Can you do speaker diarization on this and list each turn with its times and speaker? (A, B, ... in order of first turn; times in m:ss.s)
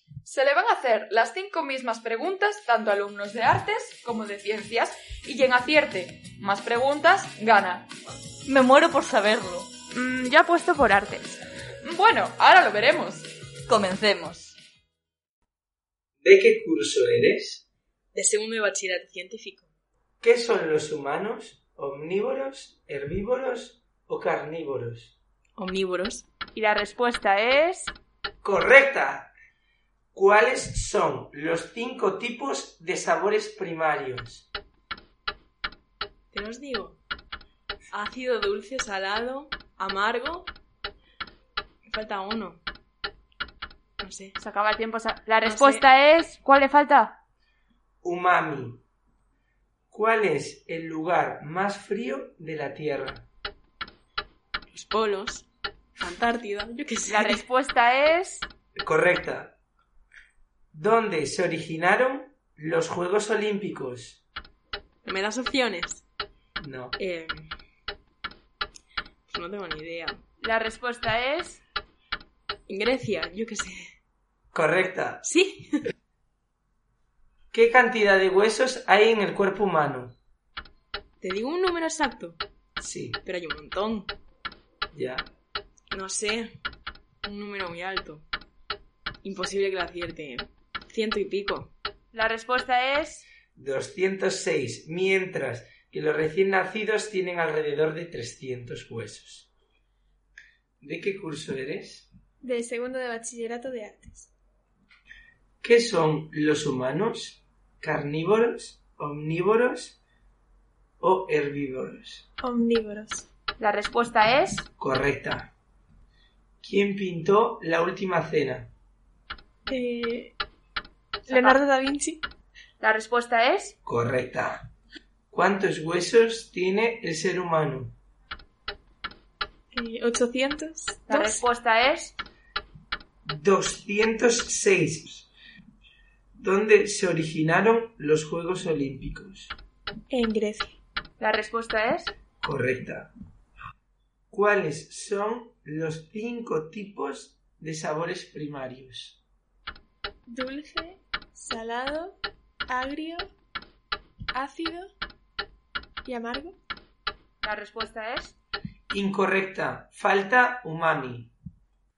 0:00.2-0:07.9 A
0:08.5-0:09.7 B
0:09.9-0:11.4 C
0:11.8-0:13.3 A
0:13.7-0:14.5 B
0:16.2-0:17.6 D
0:18.1-0:19.7 E
0:20.2-0:25.2 D
0:25.6-0:26.3 E
0:26.6-0:28.0 C
0:28.4-0:29.3 D
0:30.1-0:34.5 D
0:36.3-0:37.0 E
0:37.9-0:40.5 E
0:41.9-0:42.6 E
0:44.0-0:44.4 E
0:44.4-0:47.2 C
0:45.4-0:45.8 E
0:48.0-0:48.8 D
0:49.9-0:53.3 D
0:54.7-0:55.5 E
0:56.0-0:57.4 E
0:57.1-0:58.5 C
0:58.8-0:59.6 D
1:00.7-1:04.2 D
1:05.0-1:06.0 E
1:06.6-1:07.0 D
1:07.0-1:07.5 E
1:09.3-1:10.2 E
1:10.4-1:11.6 C
1:12.7-1:13.9 E
1:14.5-1:15.2 D
1:15.2-1:15.7 E
1:17.5-1:20.2 D
1:21.2-1:22.4 E
1:22.8-1:23.2 D
1:23.2-1:24.1 E
1:24.9-1:25.3 D
1:25.9-1:26.6 E
1:27.2-1:28.2 E
1:29.2-1:31.7 E
1:32.1-1:33.3 C
1:33.6-1:39.5 D
1:40.8-1:42.1 D
1:42.4-1:44.3 F
1:45.6-1:50.0 D
1:51.0-1:52.2 D
1:52.4-1:53.3 F
1:53.6-1:54.7 C
1:54.8-1:55.5 D
1:56.6-1:58.7 D
1:59.7-2:00.4 F
2:01.2-2:02.2 F
2:01.3-2:01.6 C
2:02.8-2:03.8 C
2:03.8-2:04.7 D
2:05.3-2:08.0 D
2:09.7-2:11.4 F
2:11.1-2:12.2 C
2:13.2-2:15.3 D
2:16.4-2:19.6 D
2:20.1-2:20.8 F
2:21.2-2:22.1 C
2:22.4-2:23.1 D
2:24.3-2:29.2 D
2:30.3-2:32.2 F
2:32.7-2:33.3 F
2:34.3-2:34.9 F
2:36.0-2:36.6 F
2:37.4-2:38.4 C
2:38.9-2:41.3 D